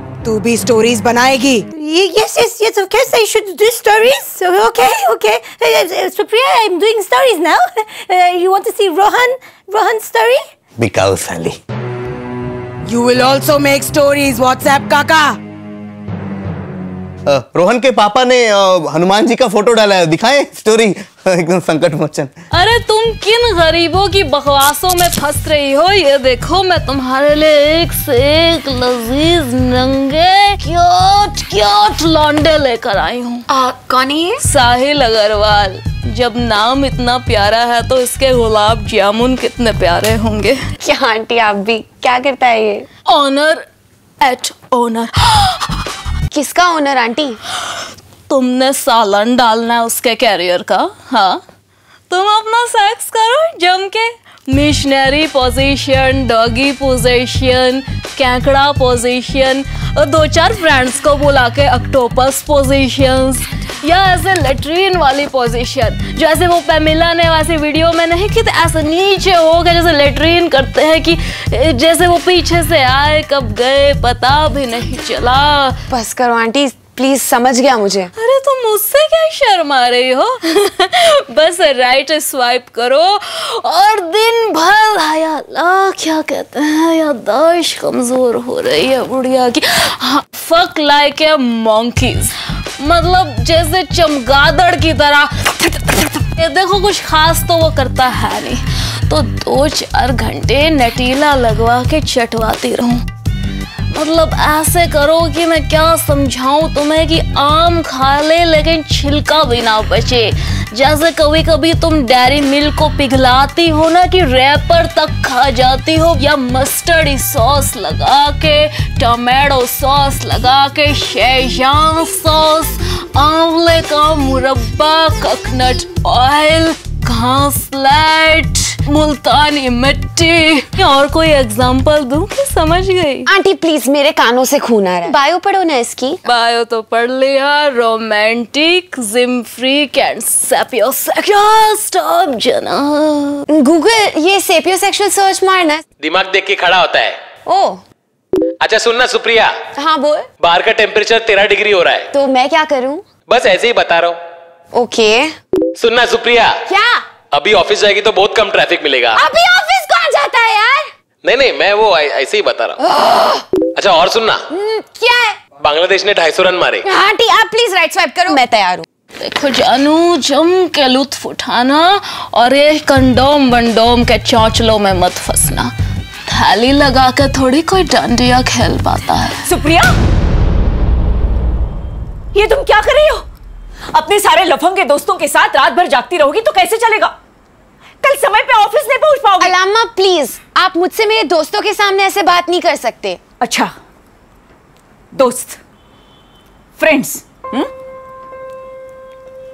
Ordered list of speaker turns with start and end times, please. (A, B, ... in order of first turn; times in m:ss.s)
0:00.2-0:01.6 A
0:01.7-0:10.4 B
0:10.8-0:11.6 C
0:12.8-0:15.4 A
0:17.3-0:22.3 C
0:22.5-0:33.5 D
0:33.5-0:34.4 E
0:34.4-0:40.6 D
0:40.8-0:42.9 E
0:43.1-0:43.6 D
0:44.2-0:45.8 D
0:46.3-0:47.4 E
0:48.3-0:51.4 D
0:52.1-1:15.8 D
1:15.9-1:18.1 E
1:18.2-1:43.0 D
1:43.9-2:13.3 D
2:13.3-2:16.2 E
2:16.2-2:23.4 D
2:23.5-2:25.8 E
2:26.0-2:27.2 F
2:27.5-2:27.8 E
2:28.6-2:29.5 F
2:29.8-2:30.3 E
2:30.4-2:32.1 F
2:32.1-2:33.0 E
2:33.3-2:34.2 F
2:34.7-2:35.3 E
2:35.8-2:36.5 F
2:36.7-2:37.0 E
2:37.3-2:39.2 F
2:39.1-2:40.9 E
2:41.2-2:42.8 F
2:42.8-2:43.5 E
2:43.8-2:44.4 F
2:44.5-2:45.4 E
2:45.6-2:46.8 F
2:46.8-2:48.8 E
2:49.2-2:55.7 D
2:56.3-2:59.5 D
2:59.4-3:00.0 G
3:02.3-3:03.3 G
3:03.9-3:07.2 G
3:08.0-3:09.6 G
3:09.4-3:13.2 E
3:13.4-3:13.7 G
3:15.1-3:15.6 G
3:16.8-3:17.7 G